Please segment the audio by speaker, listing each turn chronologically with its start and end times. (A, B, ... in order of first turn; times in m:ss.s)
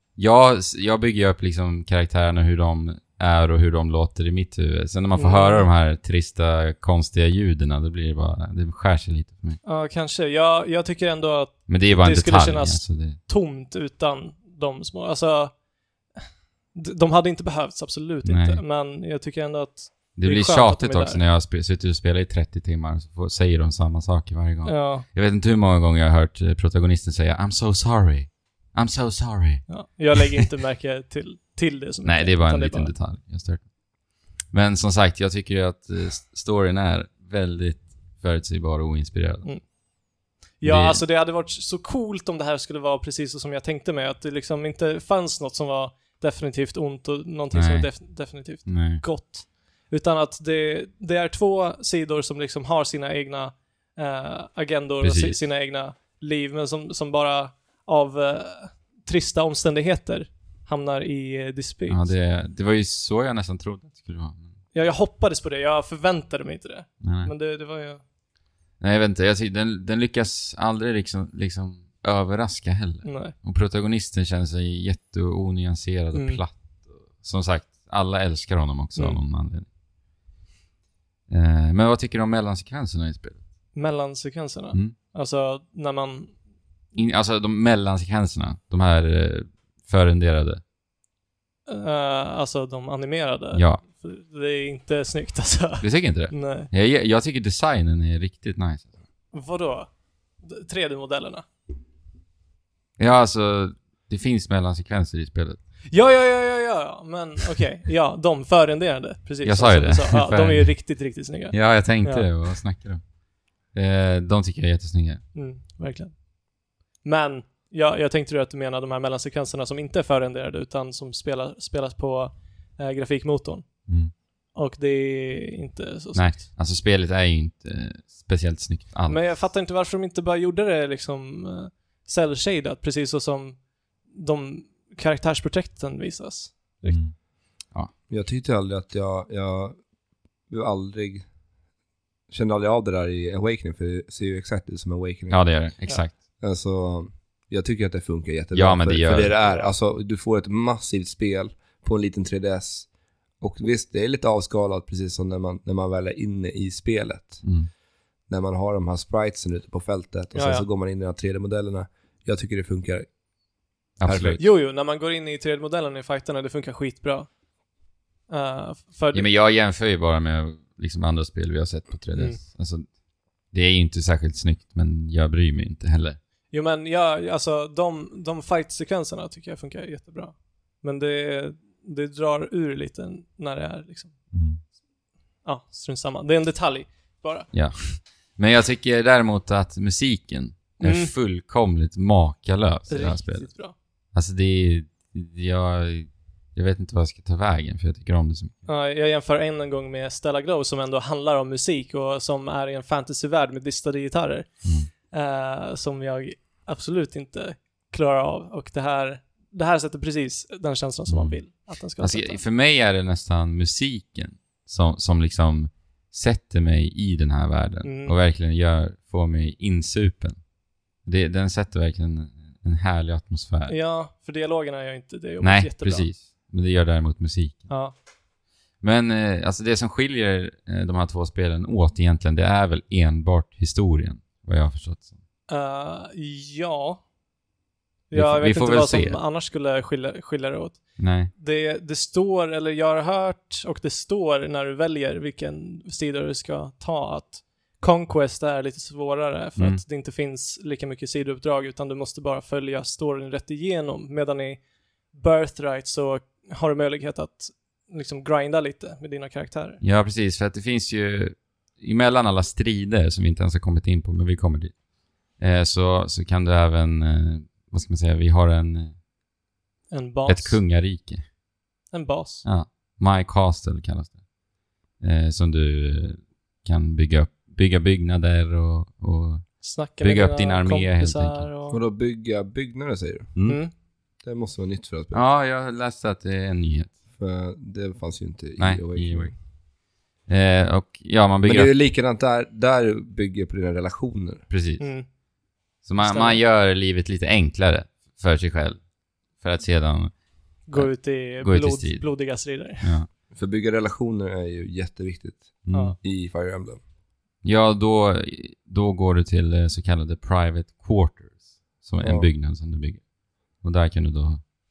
0:00.2-0:09.6 A
0:05.2-0:05.7 B
0:09.6-0:15.6 B
0:11.7-0:13.2 A
0:16.7-0:21.2 B
0:18.2-0:18.6 A
0:20.2-0:30.4 A
0:24.6-0:25.0 B
0:29.7-0:32.9 B
0:32.0-0:33.7 A
0:34.5-0:39.6 A
0:40.6-1:02.1 B
0:40.6-0:41.0 A
0:47.5-0:49.0 A
0:55.0-0:55.4 A
1:01.9-1:04.5 A
1:04.7-1:08.0 B
1:07.0-1:07.3 A
1:08.8-1:19.7 A
1:13.0-1:13.3 B
1:16.1-1:16.4 B
1:21.3-1:23.4 A
1:23.7-1:26.3 B
1:27.0-1:30.6 A
1:31.7-1:36.7 B
1:33.5-1:33.8 A
1:35.8-1:38.9 A
1:39.3-1:39.9 B
1:40.4-1:41.4 B
1:43.0-1:45.6 A
1:45.9-1:52.3 B
1:49.4-1:50.8 A
1:51.5-1:53.0 A
1:53.7-1:55.2 A
1:55.3-1:56.2 B
1:57.0-2:03.6 B
2:03.9-2:04.1 A
2:04.6-2:06.4 B
2:06.1-2:09.4 A
2:09.0-2:17.0 B
2:16.9-2:17.2 A
2:18.1-2:19.8 C
2:20.5-2:21.3 C
2:22.3-2:25.5 C
2:25.3-2:26.1 A
2:26.4-2:37.4 C
2:28.5-2:29.3 A
2:29.4-2:29.7 B
2:37.4-2:37.7 A
2:38.3-2:43.1 C
2:40.3-2:40.7 B
2:44.0-2:44.4 A
2:44.0-2:44.4 C
2:44.4-2:47.3 B
2:48.3-2:49.3 B
2:49.1-2:52.9 A
2:53.5-2:56.2 A
2:56.5-3:04.1 B
3:04.3-3:04.6 A
3:05.4-3:07.5 B
3:07.5-3:13.5 A
3:10.8-3:11.1 B
3:12.9-3:13.7 B
3:14.1-3:18.5 A
3:18.7-3:24.5 B
3:24.6-3:24.9 A
3:25.1-3:32.4 B
3:31.1-3:31.4 A
3:32.0-3:40.4 A
3:37.8-3:38.1 B
3:41.0-3:43.8 A
3:43.7-3:46.1 B
3:45.4-3:47.7 A
3:47.7-3:47.9 B
3:48.8-3:55.1 A
3:55.5-3:57.0 B
3:58.1-4:19.8 B
3:58.1-3:59.2 A
4:01.0-4:01.3 A
4:09.6-4:09.8 A
4:19.8-4:24.7 A
4:25.4-4:29.0 A
4:29.9-4:30.6 B
4:30.3-4:31.3 A
4:31.9-4:32.4 B
4:32.4-4:34.2 A
4:35.0-4:41.5 A
4:39.6-4:41.8 B
4:41.7-4:43.3 C
4:43.3-4:43.6 A
4:43.4-4:43.7 B
4:44.2-4:45.2 C
4:45.1-4:47.0 A
4:47.2-4:49.3 C
4:48.6-4:49.4 A
4:50.3-4:51.7 A
4:51.4-4:54.4 C
4:54.5-4:54.9 A
4:54.8-4:55.1 B
4:55.8-4:58.8 A
4:56.0-4:56.4 B
4:59.4-5:00.1 A
5:00.7-5:02.9 B
5:00.7-5:02.1 A
5:02.8-5:03.1 A
5:03.3-5:06.8 C
5:05.7-5:06.0 A
5:07.4-5:13.0 A
5:12.0-5:12.3 C
5:13.6-5:14.4 A